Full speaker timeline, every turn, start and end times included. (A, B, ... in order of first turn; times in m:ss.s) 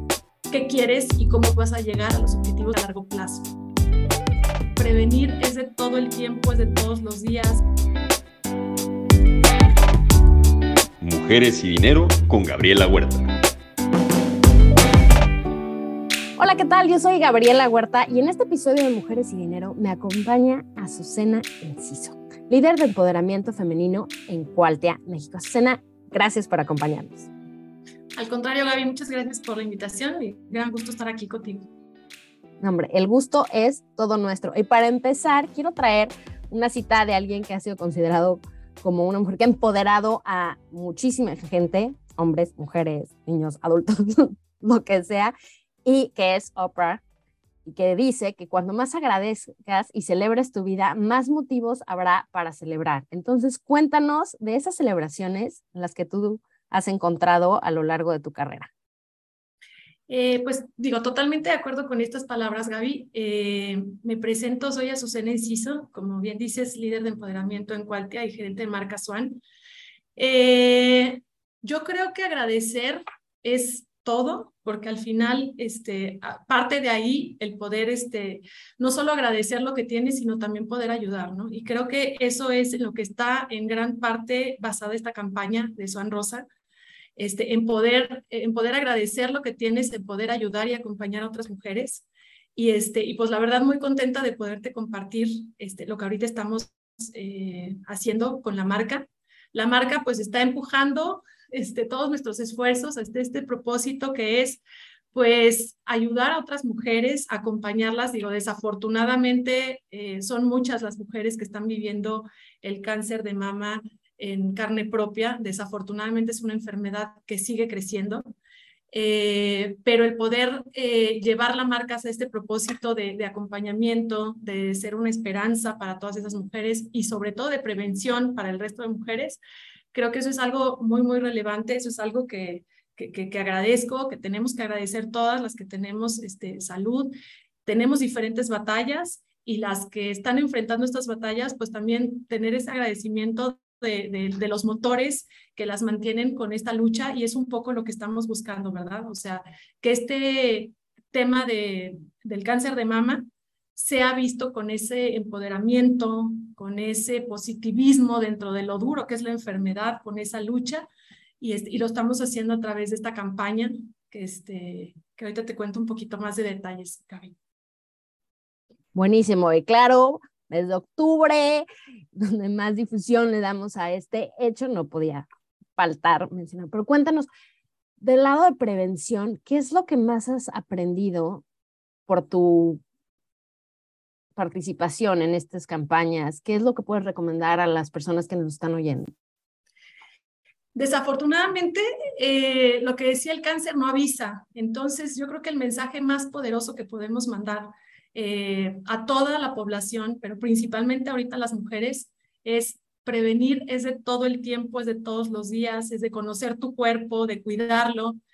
0:00.5-0:03.5 A
0:04.8-0:07.6 A
0:11.0-0:13.3 B
0:16.4-0:27.3 C
0:28.2-0:31.7 A
0:32.6-0:45.3 C
0:45.8-0:47.0 C
0:47.6-0:58.7 C
1:00.1-1:09.4 A
1:10.2-1:26.4 A
1:27.2-1:44.6 A
1:45.1-1:58.2 A
1:58.9-2:09.4 A
2:09.9-2:17.1 A
2:17.6-2:40.8 A
2:41.4-2:47.3 A
2:48.9-2:55.2 C
2:55.8-2:57.3 C
2:58.0-3:01.4 C
3:02.1-3:02.8 C
3:04.4-3:09.1 C
3:10.7-3:28.2 A